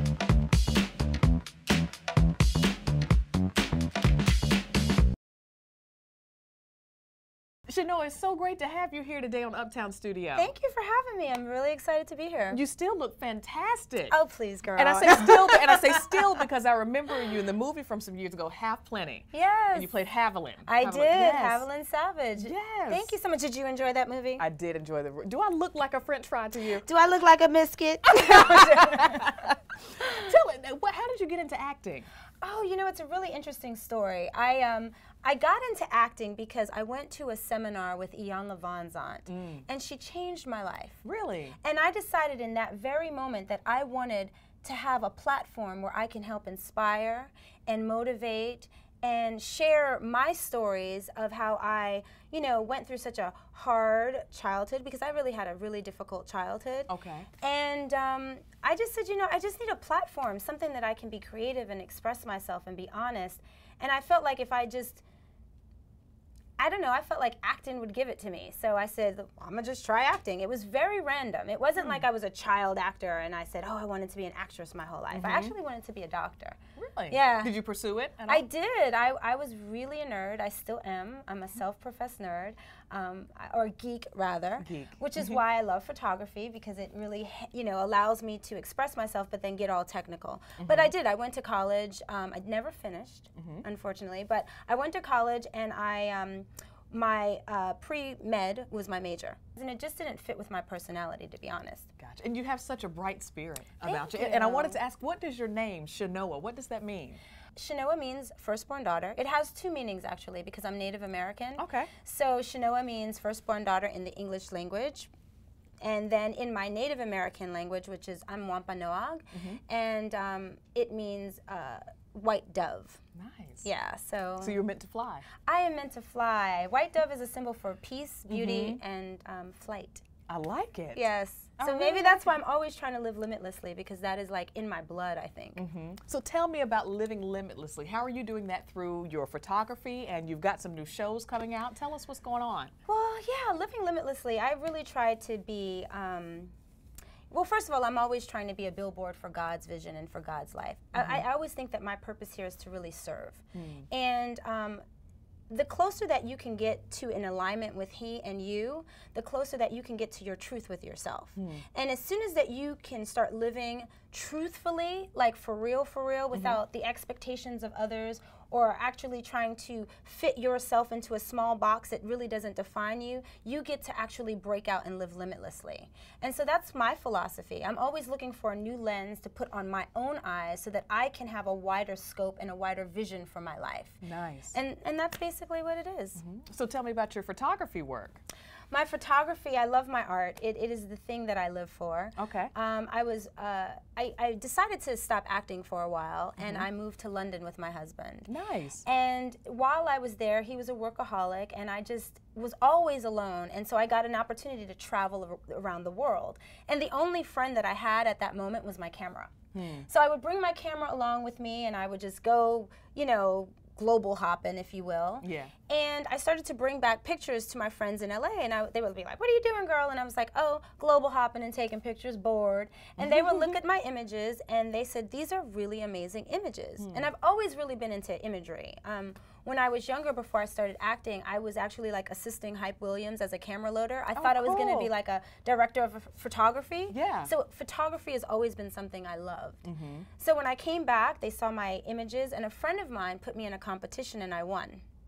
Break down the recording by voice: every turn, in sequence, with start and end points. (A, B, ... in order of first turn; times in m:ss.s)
0:07.7-0:10.5 A
0:10.4-0:12.6 B
0:12.5-0:14.2 A
0:14.1-0:16.2 B
0:14.8-0:21.6 A
0:19.3-0:19.9 B
0:20.7-0:24.4 B
0:22.4-0:23.1 A
0:24.4-0:26.9 A
0:26.8-0:29.5 B
0:28.1-0:32.1 A
0:32.4-0:41.0 B
0:39.3-0:39.6 A
0:41.0-0:41.6 A
0:41.6-1:05.0 B
0:56.9-0:57.3 A
1:06.6-1:16.6 B
1:11.8-1:12.0 A
1:15.1-1:15.5 A
1:16.8-1:18.4 A
1:17.1-1:17.5 B
1:18.3-1:41.9 B
1:24.6-1:25.4 A
1:30.6-1:30.9 A
1:33.4-1:33.6 A
1:42.0-1:47.2 A
1:43.8-1:44.8 B
1:47.6-1:55.1 B
1:51.6-1:51.9 A
1:55.8-2:03.0 B
1:59.3-1:59.6 A
2:03.2-2:03.7 A
2:03.6-2:04.6 B
2:04.4-2:05.3 A
2:05.5-2:10.0 B
2:08.3-2:08.8 A
2:10.3-2:11.0 A
2:11.0-2:15.6 B
2:11.6-2:12.4 A
2:15.6-2:22.7 A
2:22.9-2:26.5 B
2:27.3-2:34.8 B
2:31.0-2:31.2 A
2:33.5-2:33.9 A
2:35.5-3:06.2 B
2:41.4-2:41.6 A
3:04.0-3:04.6 A
3:06.2-3:08.2 A
3:08.7-3:18.3 B
3:12.2-3:12.5 A
3:16.4-3:16.7 A
3:18.3-3:18.8 A
3:18.8-3:29.3 B
3:29.5-3:29.9 A
3:29.9-3:59.6 B
3:35.2-3:35.5 A
3:43.0-3:43.6 A
3:46.8-3:47.1 A
3:54.2-3:54.9 A
3:56.9-3:57.3 A
3:59.6-4:00.1 A
4:00.2-4:04.8 B